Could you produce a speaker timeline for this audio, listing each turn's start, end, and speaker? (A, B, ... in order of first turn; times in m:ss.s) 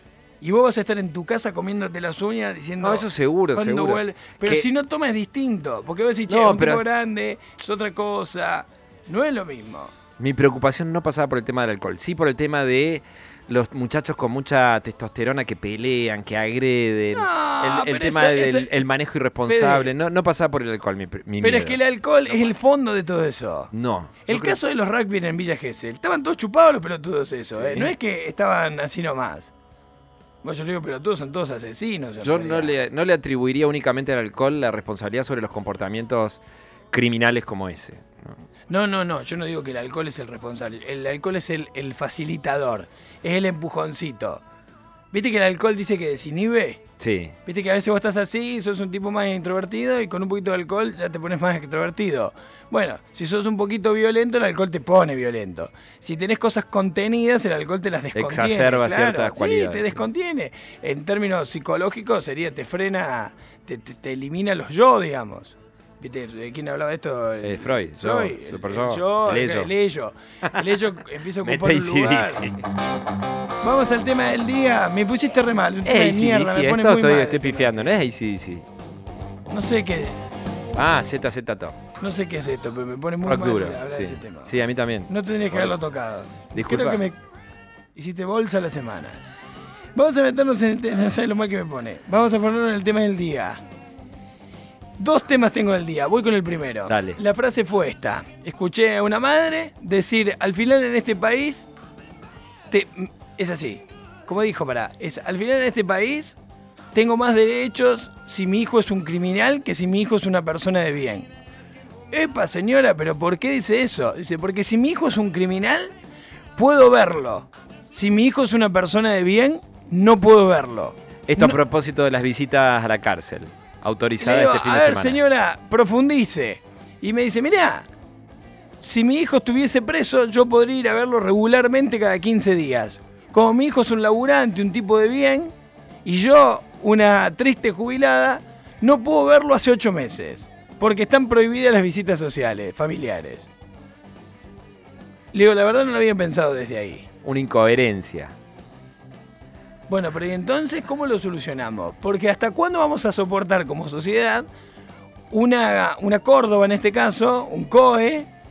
0:00.4-0:09.9 A
0:02.8-0:04.7 B
0:06.3-0:06.8 B
0:10.2-0:22.5 B
0:17.1-0:18.8 A
0:19.4-0:19.9 A
0:21.4-0:23.7 A
0:23.7-0:24.6 B
0:24.2-0:29.5 A
0:27.5-0:27.9 B
0:30.4-0:32.8 A
0:32.2-0:36.4 B
0:36.9-0:38.4 B
0:38.7-0:44.4 A
0:45.1-0:46.8 A
0:47.0-0:47.3 B
0:47.4-1:12.4 A
0:58.1-1:00.0 B
1:07.4-1:09.7 B
1:10.4-1:12.6 B
1:13.6-1:17.8 A
1:15.8-1:18.6 B
1:19.5-1:20.2 A
1:20.8-1:21.8 B
1:22.0-1:24.5 A
1:23.2-1:25.8 B
1:25.1-1:27.2 A
1:26.5-1:27.0 B
1:27.9-1:29.2 A
1:29.9-1:33.6 A
1:35.0-1:41.7 A
1:36.9-1:37.2 B
1:42.7-1:46.4 A
1:46.9-1:51.3 A
1:52.1-1:55.9 A
1:56.6-2:01.6 A
2:01.3-2:05.2 B
2:04.2-2:07.9 A
2:08.8-2:15.5 A
2:16.0-2:23.5 A
2:25.3-2:27.1 A
2:27.2-2:28.3 B
2:29.9-2:34.5 A
2:35.3-2:38.3 A